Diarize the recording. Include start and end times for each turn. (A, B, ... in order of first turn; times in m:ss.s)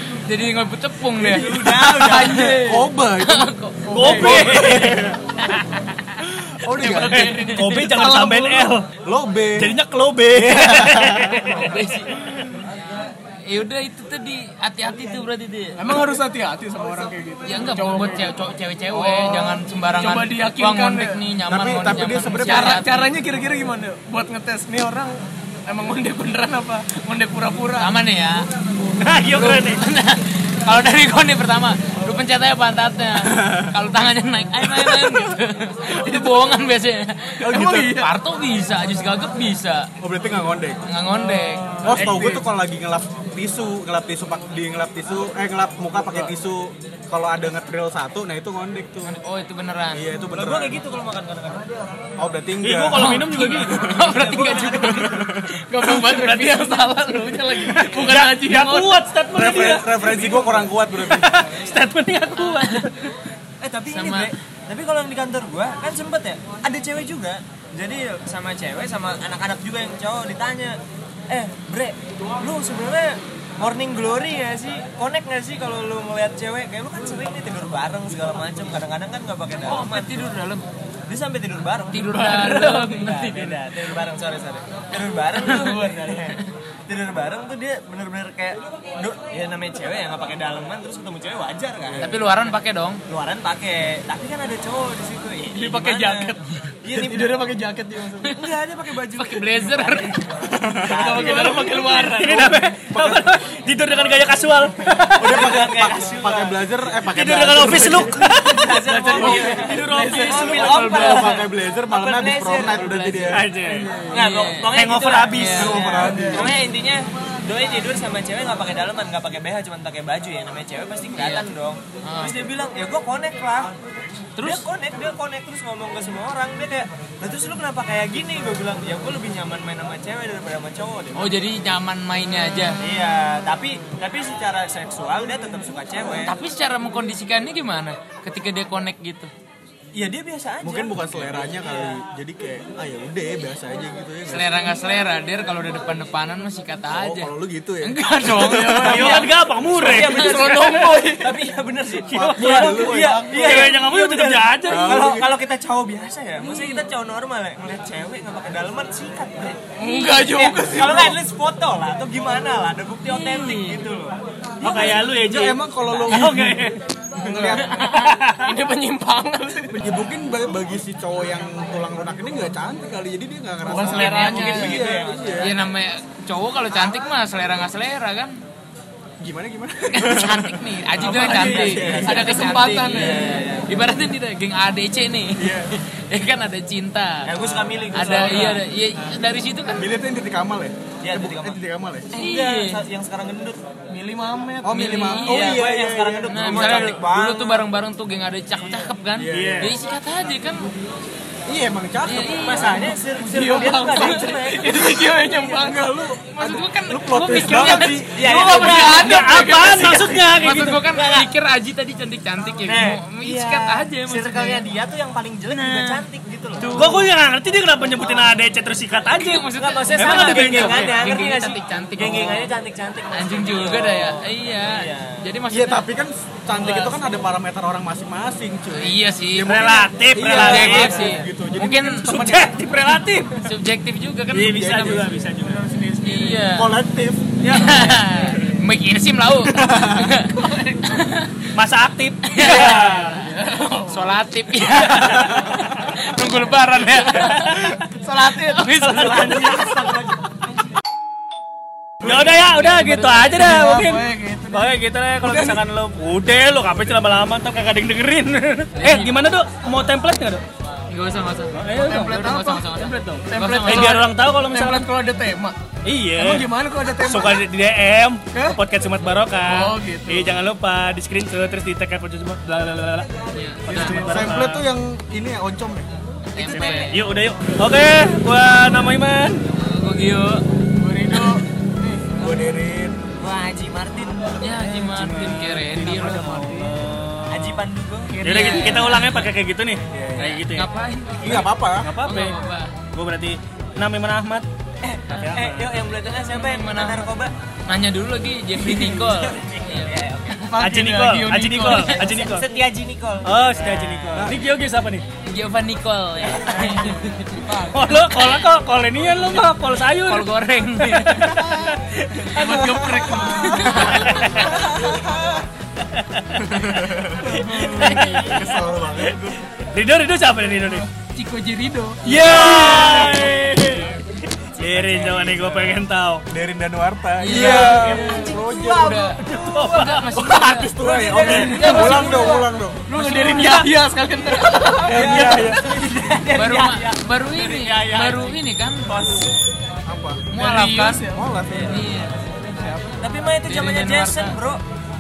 0:00.3-0:01.6 A
0:01.2-0:05.2 B
0:01.2-0:02.6 C
0:01.9-0:02.9 D
0:03.2-0:04.7 A
0:03.9-0:05.0 E
0:04.0-0:04.4 D
0:05.5-0:06.0 A
0:06.2-0:07.4 B
0:06.8-0:08.7 D
0:07.0-0:08.9 E
0:07.2-0:07.7 A
0:09.0-0:09.8 B
0:09.6-0:11.7 E
0:10.4-0:11.5 B
0:11.6-0:12.3 A
0:13.5-0:16.0 A
0:15.8-0:21.2 D
0:17.4-0:23.1 A
0:21.5-0:22.8 B
0:22.4-0:25.1 D
0:25.7-0:27.9 D
0:27.8-0:28.4 A
0:29.0-0:29.8 E
0:29.3-0:39.9 A
0:33.2-0:33.8 B
0:34.9-0:35.2 D
0:35.9-0:36.6 D
0:37.4-0:38.0 B
0:37.5-0:38.1 D
0:40.0-0:40.8 B
0:40.9-0:42.0 A
0:41.0-0:42.4 D
0:41.8-0:49.2 B
0:41.9-0:42.4 E
0:49.0-0:50.1 A
0:49.9-0:50.8 B
0:50.3-0:51.7 C
0:52.2-0:54.3 B
0:52.6-0:53.9 E
0:53.0-0:57.7 A
0:54.0-0:55.2 C
0:54.8-0:55.6 B
0:55.8-0:59.0 D
0:56.0-0:56.3 E
0:57.7-1:03.2 E
0:59.3-1:01.4 B
1:02.6-1:02.9 A
1:03.6-1:10.8 C
1:03.9-1:04.3 A
1:11.3-1:20.3 C
1:19.6-1:20.7 A
1:21.1-1:32.2 C
1:21.9-1:23.9 A
1:22.2-1:22.9 D
1:25.4-1:25.8 A
1:31.8-1:32.2 B
1:32.0-1:33.0 A
1:33.1-1:37.4 C
1:35.5-1:38.4 D
1:38.3-1:42.2 C
1:39.1-1:40.2 A
1:40.4-1:41.5 B
1:40.9-1:42.6 D
1:41.5-1:45.5 E
1:42.9-1:43.3 B
1:45.0-1:46.6 C
1:45.2-1:48.2 B
1:47.1-1:51.4 E
1:48.4-1:53.4 C
1:48.8-1:50.6 D
1:50.6-1:53.5 B
1:53.3-1:53.9 E
1:53.6-1:54.2 D
1:54.1-2:03.7 C
1:54.1-1:55.9 A
1:54.8-1:56.0 E
1:55.6-1:56.6 B
1:56.0-1:56.5 D
2:01.1-2:01.5 A
2:02.0-2:02.4 A
2:04.4-2:04.7 A
2:04.4-2:11.4 C
2:11.2-2:12.8 A
2:12.8-2:16.3 C
2:16.3-2:19.3 A
2:19.9-2:22.0 C
2:20.6-2:24.8 B
2:24.3-2:29.3 A
2:26.9-2:29.0 B
2:28.4-2:29.3 D
2:28.8-2:30.7 E
2:28.9-2:44.2 C
2:29.9-2:31.5 D
2:32.1-2:35.2 E
2:32.4-2:33.3 B
2:32.9-2:33.8 D
2:34.7-2:35.4 B
2:36.4-2:36.9 A
2:39.8-2:41.2 D
2:39.8-2:40.2 A
2:43.1-2:43.8 A
2:44.6-2:46.6 B
2:44.6-2:46.8 E
2:47.2-2:47.7 B
2:47.2-2:49.8 D
2:47.5-2:48.1 A
2:47.8-2:48.5 E
2:49.7-2:55.6 B
2:53.7-2:54.8 D
2:53.8-2:54.8 A
2:53.9-2:55.6 C
2:55.4-2:58.4 A
2:59.2-3:02.3 B
2:59.9-3:07.3 A
3:01.0-3:03.4 D
3:01.0-3:03.7 C
3:05.4-3:05.7 B
3:07.2-3:08.7 C
3:07.4-3:07.8 B
3:07.9-3:09.9 A
3:09.8-3:12.1 B
3:11.0-3:11.6 C
3:12.1-3:13.6 C
3:12.1-3:12.8 A
3:13.9-3:14.8 D
3:14.6-3:16.9 B
3:14.7-3:15.7 A
3:15.2-3:17.6 C
3:16.3-3:20.7 A
3:18.6-3:18.9 C
3:19.2-3:19.8 B
3:19.3-3:19.8 E
3:21.5-3:23.0 B
3:22.0-3:24.3 A
3:22.4-3:25.2 C
3:23.2-3:26.1 D
3:25.5-3:28.3 B
3:26.3-3:29.0 A
3:27.3-3:31.3 C
3:28.2-3:30.0 D
3:28.5-3:30.8 E
3:30.4-3:34.6 A
3:32.7-3:36.8 C
3:35.5-3:36.0 A
3:36.6-3:37.1 A
3:36.7-3:41.0 E
3:39.1-3:42.5 A
3:39.5-3:45.2 C
3:43.1-3:45.8 A
3:45.5-3:52.6 B
3:46.6-3:47.0 A
3:48.8-3:52.1 A
3:49.4-3:51.2 E
3:52.0-3:53.5 E
3:53.3-3:54.8 A
3:54.3-3:55.6 E
3:54.4-3:55.2 B
3:55.4-3:56.5 D
3:56.0-3:56.7 A
3:56.5-3:57.6 B
3:57.5-4:01.4 A
3:57.5-3:58.5 C
3:59.4-4:00.2 B
4:00.4-4:00.8 D
4:01.5-4:03.2 E
4:02.3-4:03.3 A
4:02.4-4:04.1 D
4:03.9-4:07.7 A
4:04.6-4:05.8 E
4:05.2-4:05.4 B
4:07.1-4:07.7 E
4:07.9-4:10.3 D
4:08.4-4:09.5 A
4:08.8-4:10.1 E
4:12.0-4:20.4 E
4:12.0-4:12.3 B
4:12.1-4:15.6 D
4:18.8-4:19.1 A
4:20.9-4:24.0 A
4:21.5-4:22.2 E
4:21.7-4:25.6 D
4:22.8-4:24.9 E
4:25.9-4:33.1 E
4:26.1-4:27.5 D
4:28.3-4:28.6 D
4:29.4-4:30.4 D
4:33.4-4:34.0 A
4:33.7-4:34.6 E
4:33.7-4:34.3 D
4:34.0-4:35.9 B
4:36.3-4:37.0 A
4:36.4-4:37.0 C
4:36.4-4:39.4 E
4:39.5-4:40.4 A
4:40.8-4:42.1 D
4:41.1-4:41.5 A
4:42.2-4:43.0 B
4:43.2-4:44.6 C
4:44.4-4:46.7 A
4:44.8-4:47.6 E
4:47.3-4:49.0 C
4:48.2-4:49.3 A
4:48.2-4:50.7 E
4:49.9-4:50.4 B
4:50.2-4:51.5 A
4:51.2-4:51.9 B
4:51.3-4:52.4 E
4:52.0-4:52.8 A
4:52.9-4:54.5 E
4:54.8-4:57.3 C
4:55.1-4:55.9 E
4:56.0-4:57.1 A
4:57.7-5:00.5 A
4:58.6-5:00.4 C
5:00.5-5:02.0 D
5:00.6-5:02.5 E
5:01.7-5:02.0 A
5:01.8-5:04.3 C
5:03.2-5:05.0 E
5:05.3-5:08.3 A
5:06.3-5:07.2 C
5:07.7-5:13.2 E
5:10.0-5:11.5 A
5:12.3-5:14.0 D
5:12.9-5:13.7 B
5:13.3-5:14.4 A
5:13.8-5:14.6 E
5:14.4-5:15.4 B
5:16.0-5:16.2 E
5:16.4-5:17.4 B
5:17.2-5:18.0 D
5:17.3-5:18.4 E
5:17.6-5:18.6 A
5:18.1-5:19.4 B
5:19.7-5:20.8 E
5:20.6-5:20.9 D
5:21.1-5:22.1 A
5:22.0-5:23.9 E
5:22.1-5:23.3 B
5:22.2-5:23.3 C
5:24.6-5:26.2 E
5:24.6-5:29.1 B
5:27.2-5:32.4 A
5:27.3-5:29.1 C
5:28.0-5:28.2 D
5:29.2-5:30.1 E
5:30.1-5:32.9 B
5:30.8-5:32.5 C
5:31.2-5:35.6 D
5:33.0-5:33.6 A
5:33.1-5:33.5 C
5:34.8-5:35.9 B
5:34.8-5:38.4 C
5:36.3-5:39.0 A
5:38.9-5:39.3 C
5:39.9-5:40.3 B
5:40.3-5:41.1 A
5:40.4-5:41.2 D
5:41.1-5:41.8 B
5:41.6-5:42.4 A
5:42.4-5:43.0 D
5:43.0-5:44.6 C
5:43.5-5:44.4 A